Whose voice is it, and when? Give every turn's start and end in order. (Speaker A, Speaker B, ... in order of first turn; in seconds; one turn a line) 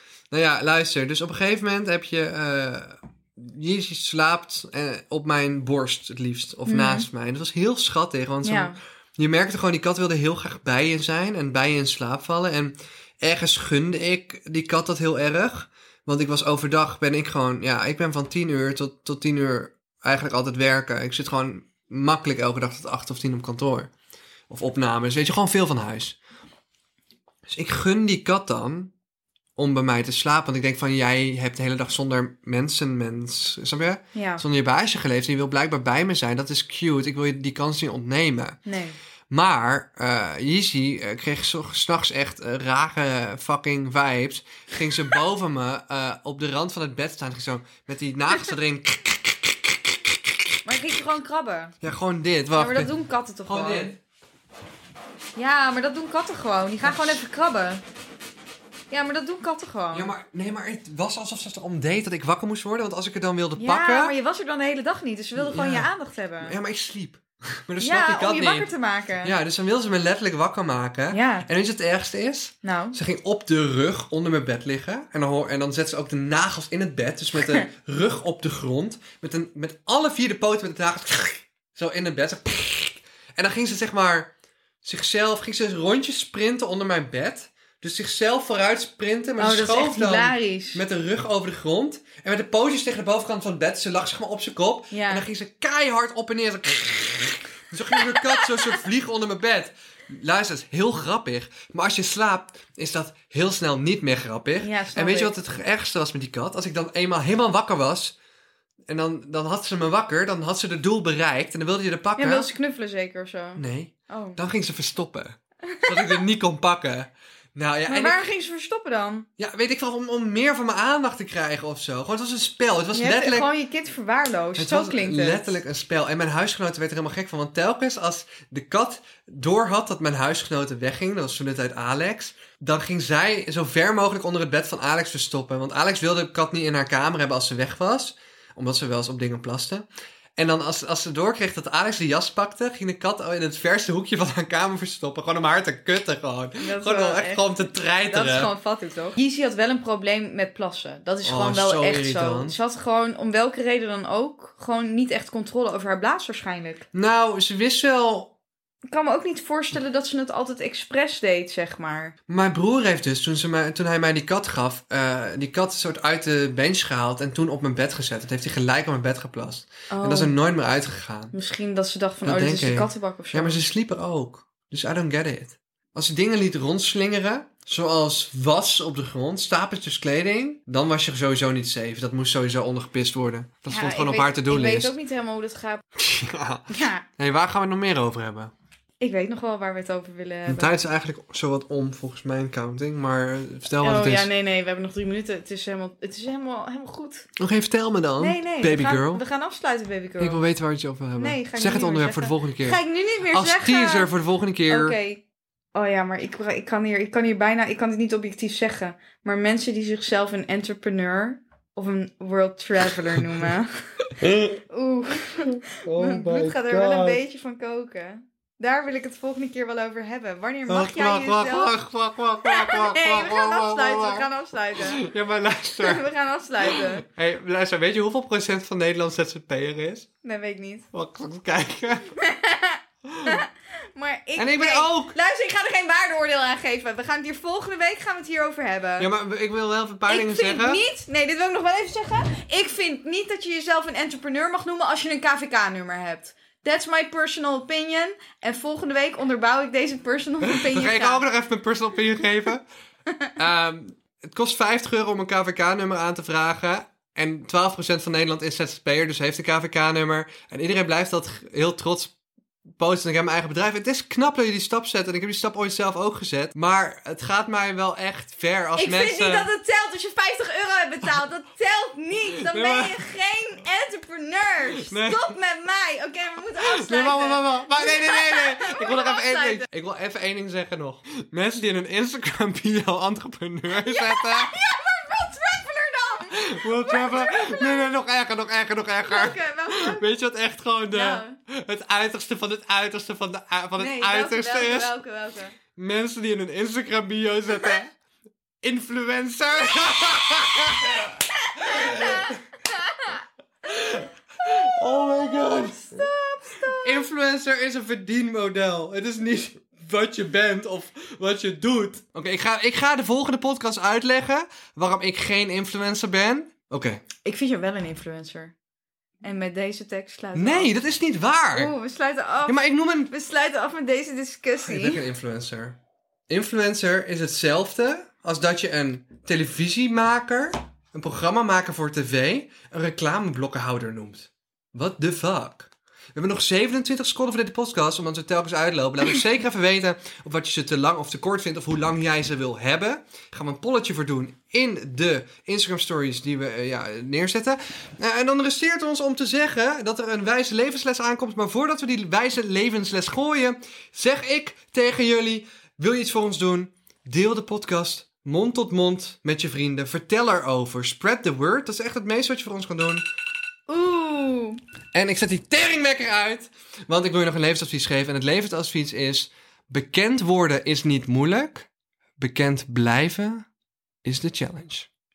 Speaker A: 0.3-23.9
Speaker B: 6.7-7.1
Speaker B: 8.4-8.8
Speaker A: 24.5-26.2
Speaker A: 27.5-28.9
Speaker A: 29.6-38.6
Speaker B: 34.1-34.4
Speaker B: 38.6-39.0
Speaker A: 39.3-50.4
Speaker B: 50.6-51.7
Speaker A: 51.8-52.9
Speaker B: 52.5-53.9
Speaker A: 53.5-54.0
Speaker B: 55.4-57.8
Speaker A: 56.8-57.2
Speaker B: 58.9-60.1
Speaker A: 59.9-64.2
Speaker B: 63.6-66.5
Speaker A: 65.3-68.7
Speaker B: 67.8-69.3
Speaker A: 69.2-84.3
Speaker B: 71.1-71.5
Speaker B: 72.6-73.0
Speaker A: 84.8-108.1
Speaker B: 89.4-90.8
Speaker B: 94.9-95.2
Speaker B: 104.6-105.3
Speaker A: 108.9-112.5
Speaker B: 112.2-114.4
Speaker A: 113.5-118.2
Speaker B: 115.7-116.2
Speaker B: 117.9-119.3
Speaker A: 119.4-123.5
Speaker B: 122.9-125.6
Speaker A: 124.5-139.8
Speaker A: 140.4-148.5
Speaker B: 146.6-156.8
Speaker A: 151.2-152.6
Speaker A: 156.9-158.3
Speaker B: 158.9-162.1
Speaker A: 162.3-171.3
Speaker B: 169.9-170.3
Speaker B: 171.3-173.6
Speaker A: 172.2-184.9
Speaker B: 183.7-185.8
Speaker A: 185.9-188.5
Speaker B: 186.7-187.0
Speaker B: 189.0-190.8
Speaker A: 190.4-194.3
Speaker B: 193.8-197.3
Speaker A: 197.4-199.2
Speaker B: 198.2-200.4
Speaker A: 200.2-205.0
Speaker B: 201.2-204.1
Speaker B: 204.7-205.2
Speaker B: 205.7-221.7
Speaker A: 214.2-214.5
Speaker A: 215.7-217.2
Speaker A: 220.7-226.0
Speaker B: 222.4-225.1
Speaker B: 225.8-227.0
Speaker A: 226.6-230.1
Speaker B: 230.2-230.9
Speaker A: 230.9-232.1
Speaker B: 232.2-239.1
Speaker A: 233.1-233.4
Speaker A: 234.3-235.2
Speaker A: 239.0-240.8
Speaker B: 240.1-251.2
Speaker A: 250.4-252.6
Speaker A: 253.4-262.1
Speaker A: 262.8-269.5
Speaker B: 268.8-279.6
Speaker A: 272.4-273.0
Speaker A: 274.9-275.3
Speaker A: 276.6-284.5
Speaker B: 283.8-287.9
Speaker A: 286.3-294.9
Speaker B: 289.1-290.0
Speaker B: 290.9-291.4
Speaker B: 293.8-295.6
Speaker A: 295.8-297.9
Speaker A: 298.6-302.4
Speaker B: 301.5-303.2
Speaker A: 303.6-306.0
Speaker B: 304.4-307.1
Speaker A: 306.6-317.0
Speaker B: 317.2-318.5
Speaker B: 319.2-320.7
Speaker A: 320.3-321.7
Speaker B: 321.5-325.0
Speaker A: 322.4-323.1
Speaker A: 324.6-325.8
Speaker A: 326.3-363.1
Speaker B: 363.7-364.6
Speaker A: 364.9-371.7
Speaker A: 372.2-373.4
Speaker A: 374.0-374.9